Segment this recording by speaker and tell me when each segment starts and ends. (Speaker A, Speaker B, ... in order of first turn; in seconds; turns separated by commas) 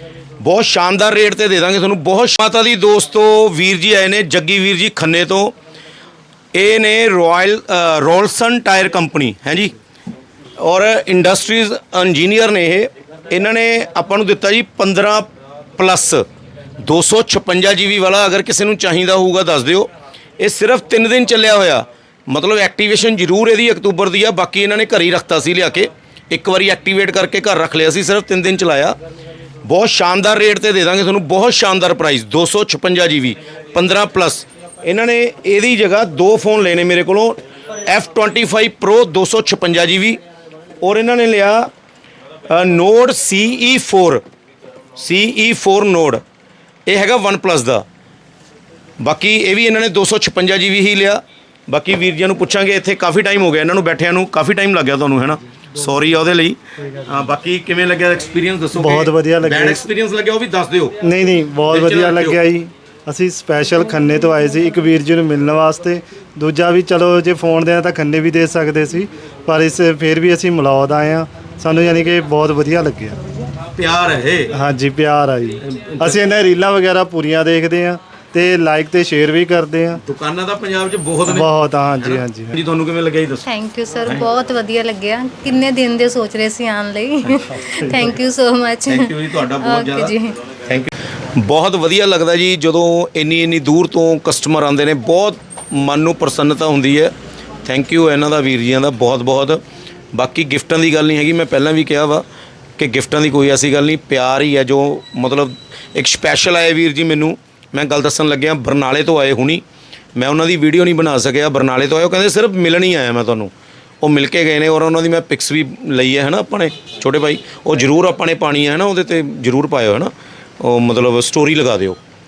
Speaker A: 0.4-5.5, Speaker A: 6.5-9.7, Speaker A: 10.6-16.2, Speaker A: 16.8-28.9, Speaker A: 29.6-40.2, Speaker A: 40.8-41.7, Speaker A: 42.5-44.2, Speaker A: 45.0-46.2, Speaker A: 46.9-47.8, Speaker A: 49.0-61.0, Speaker B: 58.7-59.8, Speaker B: 61.0-73.2, Speaker A: 61.7-62.4, Speaker A: 73.7-74.5, Speaker B: 74.5-80.0, Speaker A: 75.6-76.2, Speaker A: 80.0-83.5, Speaker B: 81.2-82.5, Speaker C: 83.5-90.3, Speaker A: 87.2-87.8, Speaker A: 88.8-97.1, Speaker A: 97.6-99.6, Speaker A: 100.1-102.2, Speaker A: 102.8-109.6, Speaker A: 110.2-122.0